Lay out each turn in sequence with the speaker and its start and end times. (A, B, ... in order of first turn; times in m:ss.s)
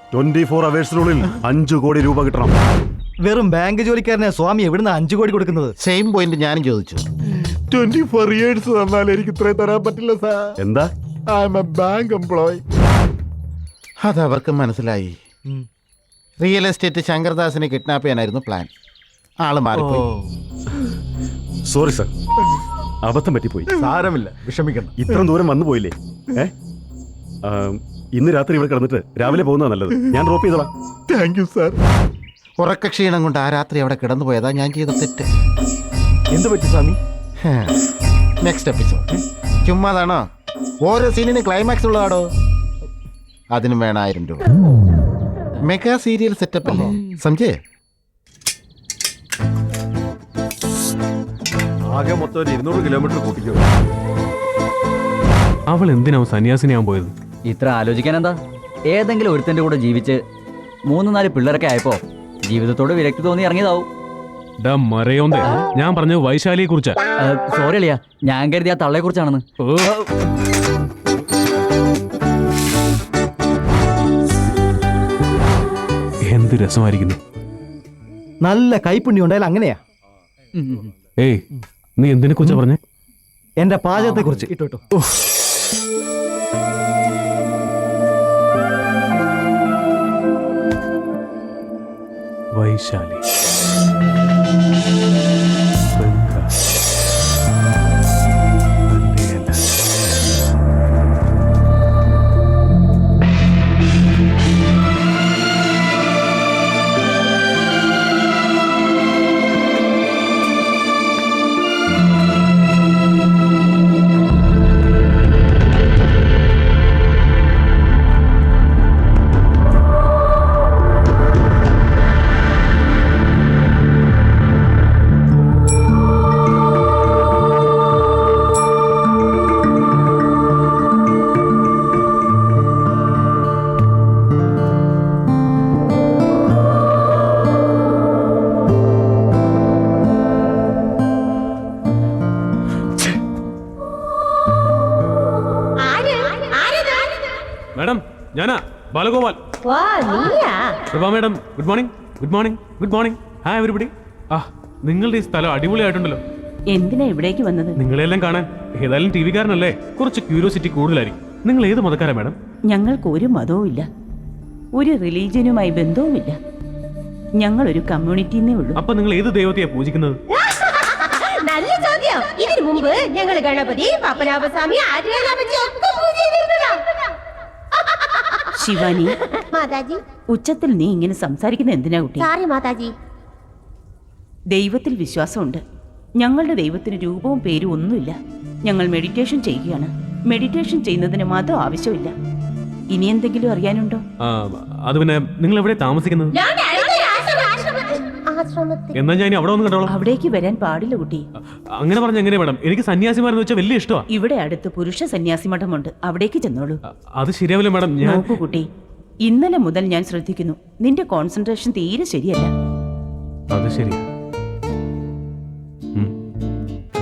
0:00.1-0:02.5 A
0:03.2-0:05.7 B
0:05.8-0:07.0 C
0:07.8-0:10.5 C
0:10.6-0:10.9 A
0:11.3-0:12.6 C
0:14.0-0:15.1 C
0:16.4-0:18.7 C
0:19.4-0:20.0 C
0:21.7-0:22.1 A
0:23.0-0:23.8 A
0:24.9-0:26.5 A
0:27.4-0:30.7 A
0:31.1-0:31.7 C
0:32.6-0:35.3 C
0:37.4-0:37.8 C
0:38.4-0:39.0 C
0:39.6-0:40.2 C
0:40.8-0:42.3 C
0:43.5-0:44.6 C
0:45.6-0:47.6 C
0:55.7-0:57.1 D
0:57.4-0:58.4 E
0:58.9-1:00.2 E
1:00.9-1:03.9 E
1:04.6-1:07.0 D
1:07.2-1:10.0 E
1:09.6-1:09.9 D
1:16.3-1:17.2 D
1:18.4-1:19.8 B
1:20.5-1:20.9 E
1:21.2-1:21.4 D
1:22.0-1:22.8 D
1:23.6-1:24.8 B
1:32.6-1:33.2 D
1:35.9-1:36.5 D
1:38.9-1:39.8 D
2:25.8-2:27.4 F
2:27.7-2:29.4 D
2:29.6-2:30.8 F
2:30.9-2:36.2 D
2:36.7-2:37.8 G
2:37.8-2:42.4 D
2:42.7-2:43.8 G
2:44.8-2:46.4 G
2:47.4-2:48.8 G
2:48.8-2:50.2 D
2:50.3-2:57.0 F
2:57.8-3:00.0 F
2:58.6-2:59.2 G
3:00.4-3:02.3 G
3:02.2-3:02.9 F
3:04.5-3:05.6 G
3:06.2-3:08.2 G
3:08.7-3:12.1 G
3:12.9-3:14.0 G
3:14.2-3:16.4 D
3:16.3-3:19.0 F
3:18.9-3:19.9 D
3:19.9-3:21.2 G
3:21.8-3:24.0 D
3:24.1-3:26.8 G
3:27.2-3:28.4 D
3:28.0-3:28.6 G
3:29.3-3:32.5 G
3:33.5-3:34.0 D